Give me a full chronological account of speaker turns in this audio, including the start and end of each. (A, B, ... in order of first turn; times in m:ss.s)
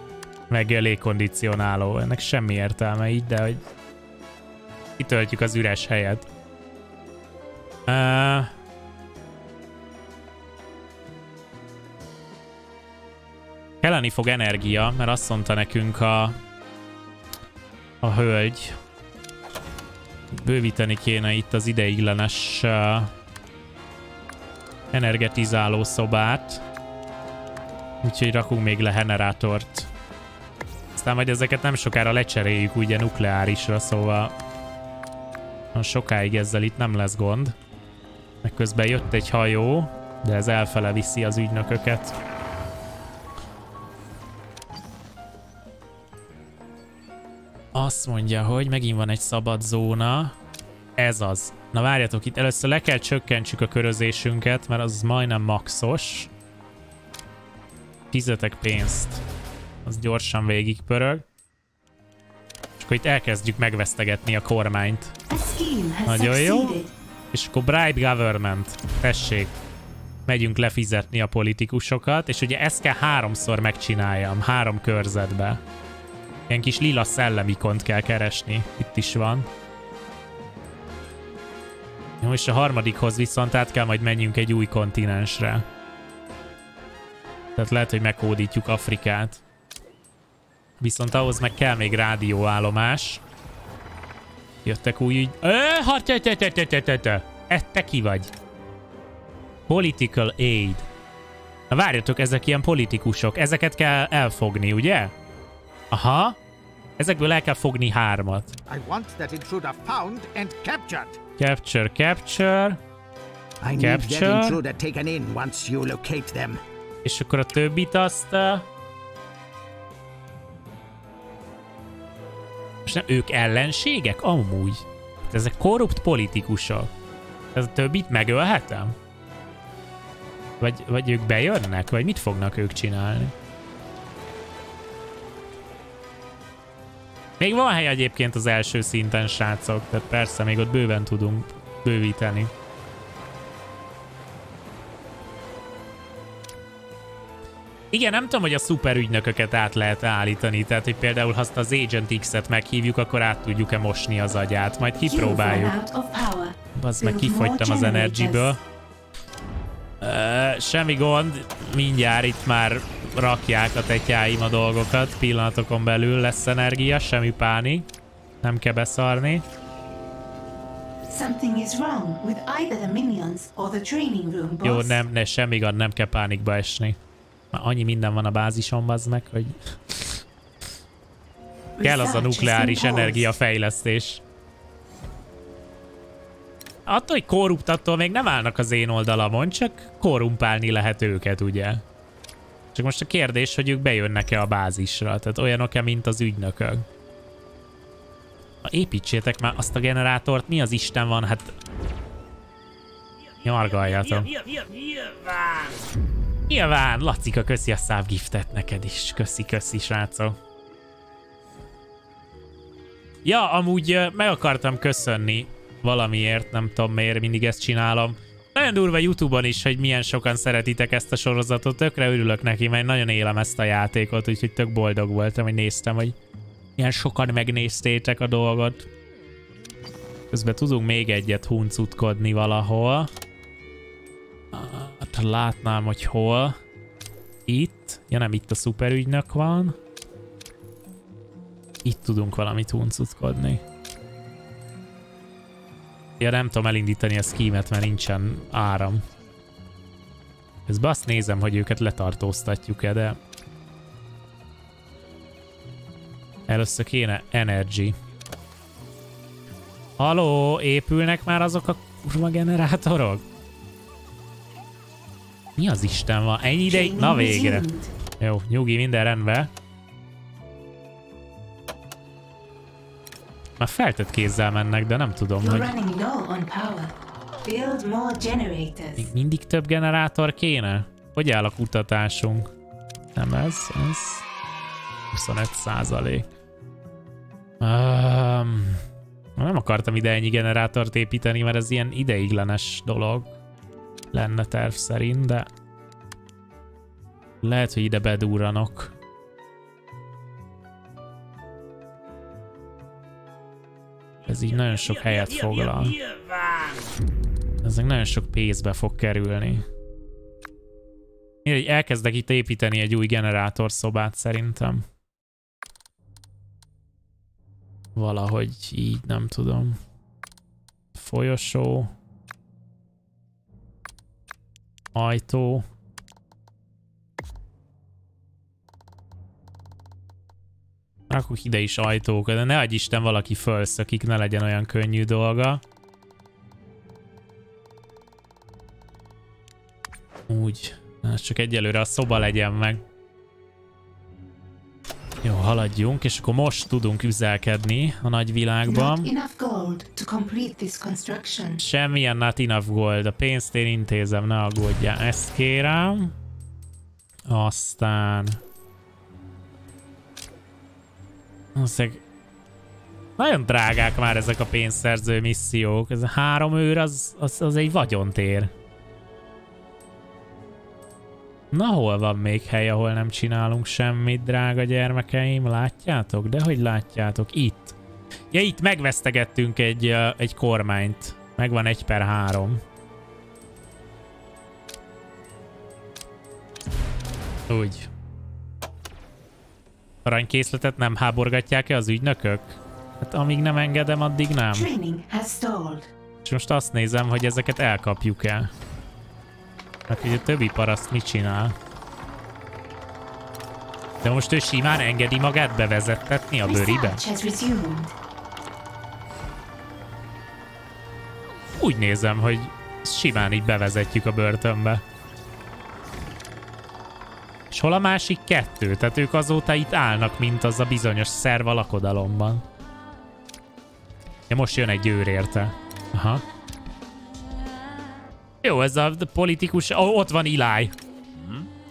0:00.5-0:03.6 A
0:05.0-0:06.3 A
0:07.9-0:08.5 A
0:13.8-0:16.4 A
0:18.0-0:18.8 A
0:20.3-0:23.1 A
0:24.9-0:26.6 A
0:28.0-0:29.9 A
0:31.0-0:34.4 A
0:35.7-0:37.6 A
0:38.4-0:42.2 A
0:47.7-0:50.4 A
0:51.0-0:56.3 A
0:58.1-0:59.2 A
0:59.8-1:01.2 A
1:02.8-1:05.2 A
1:05.3-1:06.9 B
1:06.0-1:06.8 A
1:07.3-1:09.5 A
1:10.3-1:15.6 A
1:16.5-1:19.5 A
1:22.2-1:25.7 A
1:27.6-1:29.4 A
1:30.8-1:33.2 A
1:34.6-1:38.3 A
1:39.7-1:40.9 A
1:41.7-1:45.1 A
1:45.9-1:46.4 A
1:47.0-1:48.6 A
1:48.7-1:51.2 C
1:51.4-1:52.8 A
1:53.6-1:56.6 C
1:53.8-1:54.6 A
1:57.0-1:58.7 A
2:02.9-2:06.9 A
2:07.5-2:09.0 A
2:10.6-2:13.3 A
2:17.4-2:22.5 A
2:27.9-2:35.8 A
2:35.0-2:38.6 B
2:36.8-2:38.6 A
2:40.0-2:47.9 A
2:48.4-2:49.4 A
2:51.1-2:55.0 B
2:54.6-2:57.0 A
2:57.5-3:00.2 A
3:01.8-3:03.4 B
3:01.8-3:04.2 A
3:06.9-3:11.8 A
3:12.7-3:16.8 A
3:18.6-3:21.5 A
3:23.4-3:24.3 A
3:26.5-3:30.4 A
3:33.2-3:46.2 A
3:46.8-3:48.9 A
3:50.3-3:53.1 A
3:54.5-3:56.6 A
3:57.5-3:59.8 A
4:01.8-4:03.6 A
4:06.2-4:09.0 A
4:10.7-4:13.2 A
4:16.5-4:18.0 A
4:20.0-4:23.2 A
4:25.6-4:27.7 A
4:26.7-4:27.9 B
4:28.2-4:29.5 A
4:33.6-4:35.7 A
4:35.4-4:39.1 B
4:39.0-4:42.5 A
4:43.2-4:44.3 A
4:45.1-4:46.3 A
4:47.6-4:48.8 A
4:49.4-4:53.3 A
4:54.1-4:55.5 A
4:57.4-4:58.9 A
5:04.2-5:06.0 A
5:07.6-5:09.6 A
5:11.4-5:14.8 A
5:18.0-5:19.8 A
5:20.9-5:21.9 A
5:24.9-5:25.7 A
5:31.1-5:35.6 A
5:40.3-5:42.8 A
5:45.2-5:49.1 A
5:48.7-5:51.6 B
5:51.6-5:56.1 A
5:57.3-5:58.4 A
6:01.6-6:02.0 A
6:03.2-6:08.5 A
6:11.5-6:17.8 A
6:18.3-6:22.6 A
6:27.5-6:27.9 A
6:30.0-6:34.7 A
6:34.5-6:35.9 B
6:36.2-6:38.5 A
6:39.9-6:41.6 A
6:44.0-6:47.0 A
6:46.4-6:47.9 B
6:51.6-6:54.8 A
6:57.5-7:02.4 A
7:04.3-7:06.2 A
7:08.4-7:10.7 A